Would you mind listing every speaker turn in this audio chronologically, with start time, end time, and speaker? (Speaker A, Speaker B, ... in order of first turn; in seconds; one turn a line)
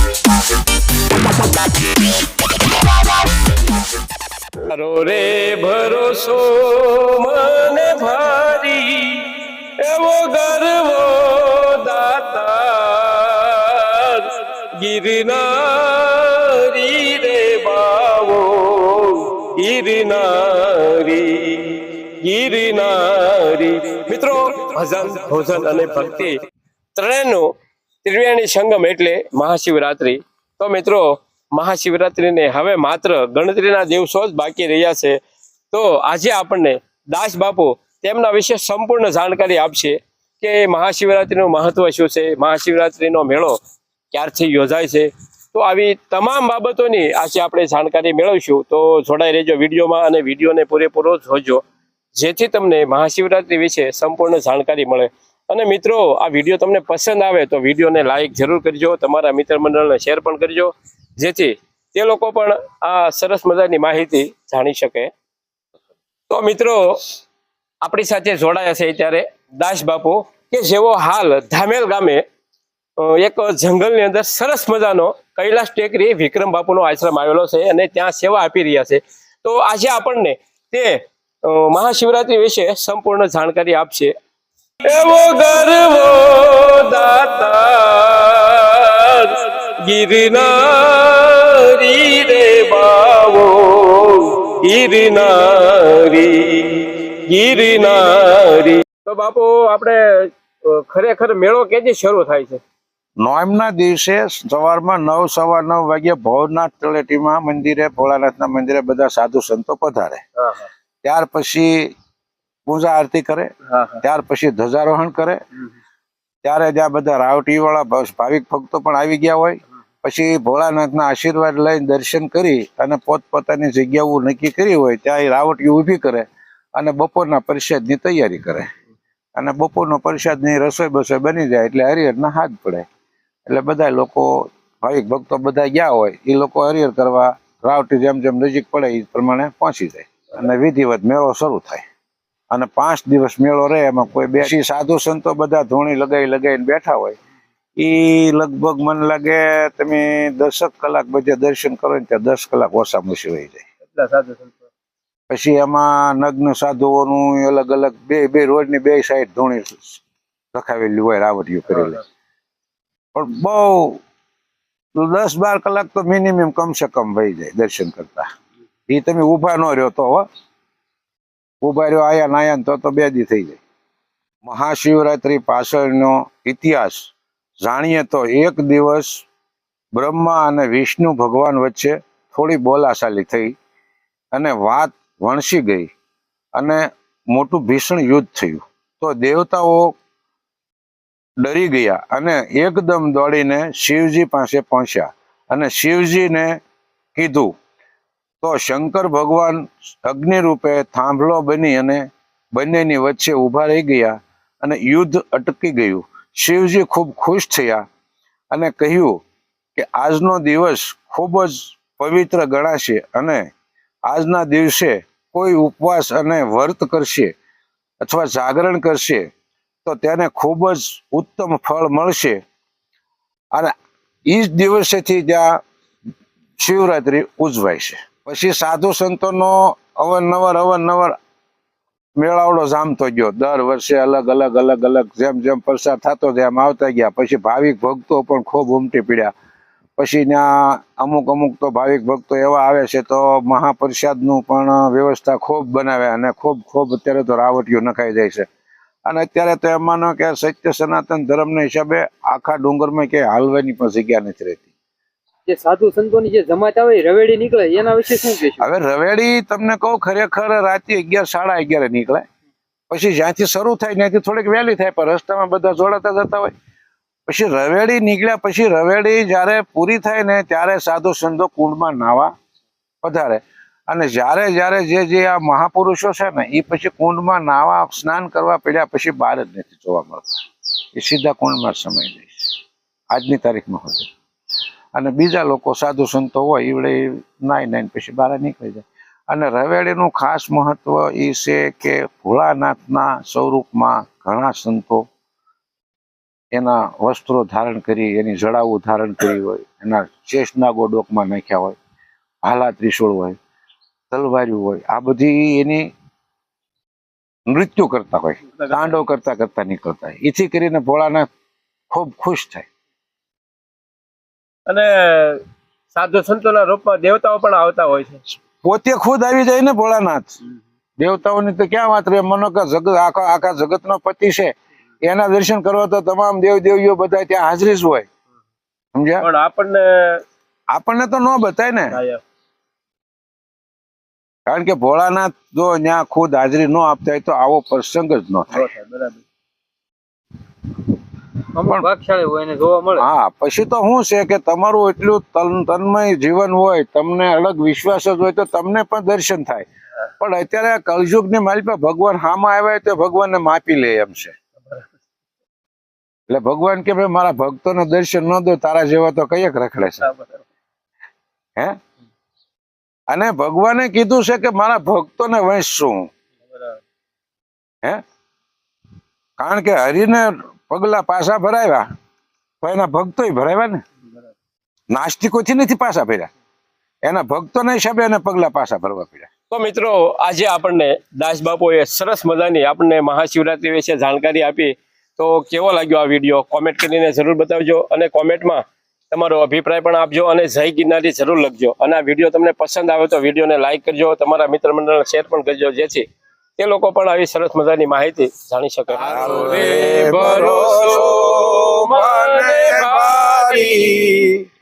Speaker A: 4.6-9.3
Speaker A: 9.8-26.4
Speaker A: 27.0-27.5
Speaker A: 28.0-35.2
Speaker A: 35.7-43.6
Speaker A: 44.1-51.6
Speaker A: 52.2-65.1
Speaker A: 66.3-67.2
Speaker A: 67.8-72.2
Speaker A: 73.0-84.1
Speaker A: 84.8-102.6
Speaker B: 103.2-110.2
Speaker A: 110.4-110.7
Speaker B: 111.0-111.9
Speaker B: 112.7-115.4
Speaker A: 113.7-114.0
Speaker B: 116.4-128.7
Speaker B: 129.4-132.9
Speaker B: 133.5-141.8
Speaker B: 142.5-147.2
Speaker B: 147.8-153.7
Speaker A: 153.9-154.7
Speaker B: 155.3-160.0
Speaker B: 160.5-162.0
Speaker A: 161.7-162.0
Speaker B: 163.2-164.0
Speaker B: 165.0-168.3
Speaker B: 168.9-170.2
Speaker B: 171.6-173.6
Speaker B: 174.4-179.3
Speaker B: 179.9-183.5
Speaker B: 184.3-185.9
Speaker B: 186.6-189.9
Speaker B: 191.4-196.6
Speaker B: 197.2-197.5
Speaker B: 198.4-207.8
Speaker B: 208.5-209.2
Speaker B: 209.8-213.5
Speaker B: 214.1-217.3
Speaker B: 218.0-219.3
Speaker B: 219.8-222.4
Speaker B: 224.3-225.6
Speaker B: 226.6-231.2
Speaker B: 232.2-239.3
Speaker B: 240.0-248.5
Speaker B: 249.1-254.7
Speaker C: 255.5-258.7
Speaker B: 258.6-262.2
Speaker B: 262.9-266.5
Speaker B: 267.3-272.3
Speaker B: 273.0-280.4
Speaker B: 280.9-282.6
Speaker B: 283.1-284.1
Speaker B: 284.9-295.1
Speaker B: 296.5-301.8
Speaker B: 302.4-303.4
Speaker B: 304.1-305.9
Speaker B: 307.5-311.3
Speaker A: 308.7-309.0
Speaker B: 311.9-312.7
Speaker A: 314.7-318.2
Speaker B: 318.6-320.4
Speaker B: 321.0-328.1
Speaker B: 328.9-329.2
Speaker A: 329.2-330.2
Speaker B: 330.7-332.0
Speaker A: 331.9-332.2
Speaker B: 334.5-338.7
Speaker A: 338.5-339.2
Speaker C: 341.6-343.1
Speaker B: 343.0-349.6
Speaker B: 350.2-354.4
Speaker B: 356.3-360.1
Speaker A: 360.1-360.4
Speaker B: 363.1-366.1
Speaker A: 366.5-366.8
Speaker B: 369.4-371.9
Speaker B: 372.6-373.8
Speaker B: 374.9-376.3
Speaker B: 377.1-379.3
Speaker A: 379.5-396.1
Speaker A: 396.6-404.1
Speaker B: 399.1-404.5